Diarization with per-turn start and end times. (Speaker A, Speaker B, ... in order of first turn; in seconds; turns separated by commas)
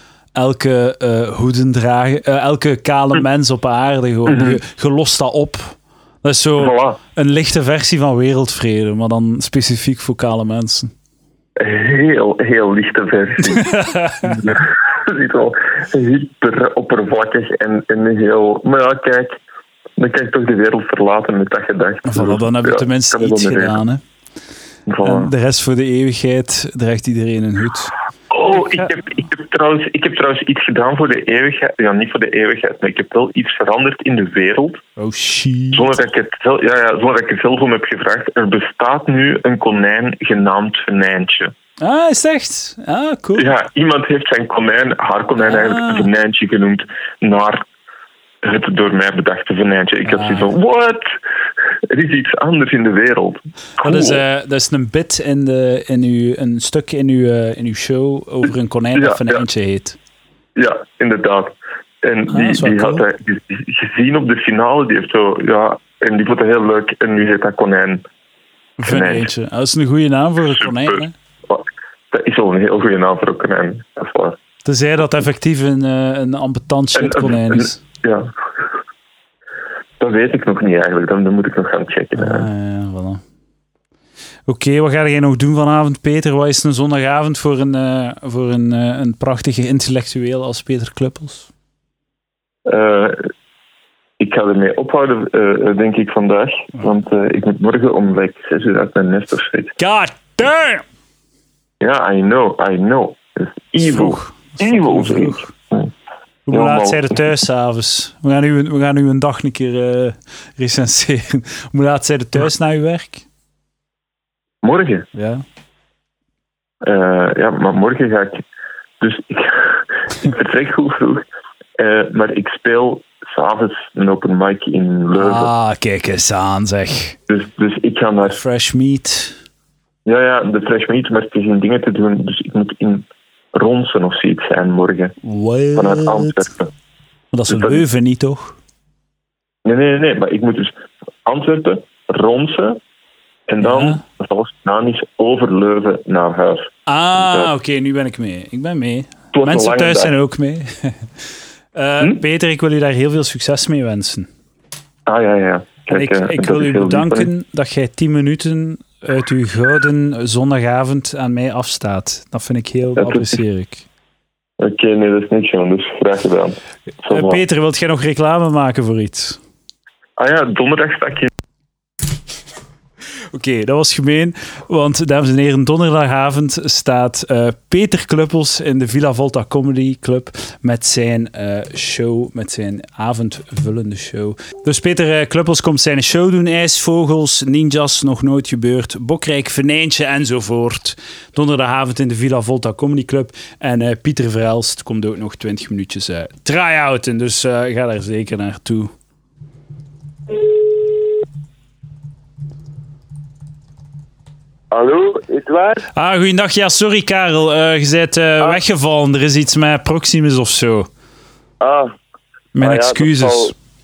Speaker A: 0.3-10.9, Speaker B: 4.3-4.6, Speaker B: 6.6-7.0, Speaker B: 11.6-13.7, Speaker A: 13.5-14.5, Speaker B: 14.2-19.4, Speaker B: 20.0-23.8, Speaker A: 22.1-24.0, Speaker B: 24.9-25.3, Speaker A: 25.0-27.9, Speaker B: 28.3-34.8, Speaker A: 35.0-35.9, Speaker B: 35.7-41.5, Speaker A: 41.8-43.5, Speaker B: 43.4-47.6, Speaker A: 45.4-46.1, Speaker B: 48.4-51.1, Speaker A: 50.1-50.5, Speaker B: 51.9-54.2, Speaker A: 53.8-60.0, Speaker B: 59.0-59.4, Speaker B: 60.6-68.0, Speaker A: 62.3-63.0, Speaker A: 68.8-71.1, Speaker B: 68.8-69.3, Speaker B: 70.5-74.4, Speaker A: 74.7-77.8, Speaker B: 77.0-78.3, Speaker B: 80.0-82.5, Speaker A: 82.2-83.2, Speaker A: 84.5-91.5, Speaker B: 92.7-93.3, Speaker B: 94.2-99.7, Speaker A: 99.8-100.8, Speaker B: 101.8-105.9, Speaker A: 103.8-105.5, Speaker A: 106.5-113.2, Speaker B: 106.5-107.2, Speaker B: 114.6-115.1, Speaker A: 115.2-115.4, Speaker B: 116.8-118.4, Speaker B: 119.0-121.2, Speaker B: 121.8-125.5, Speaker A: 125.1-127.2, Speaker B: 127.3-128.4, Speaker A: 128.3-129.4, Speaker B: 130.1-135.2, Speaker A: 135.2-136.4, Speaker B: 135.8-136.7, Speaker A: 137.3-138.6, Speaker B: 137.5-137.8, Speaker B: 139.7-142.8, Speaker B: 143.5-147.5, Speaker A: 143.6-144.0, Speaker A: 146.9-151.1, Speaker B: 149.3-150.1, Speaker A: 151.8-154.3, Speaker B: 155.1-157.3, Speaker A: 155.9-163.8, Speaker B: 163.0-163.4, Speaker B: 164.6-167.4, Speaker A: 167.1-169.4, Speaker B: 170.2-171.3, Speaker A: 173.3-198.9, Speaker C: 204.7-205.9, Speaker A: 205.9-210.9, Speaker C: 211.6-211.9, Speaker A: 212.6-213.5, Speaker C: 212.6-213.5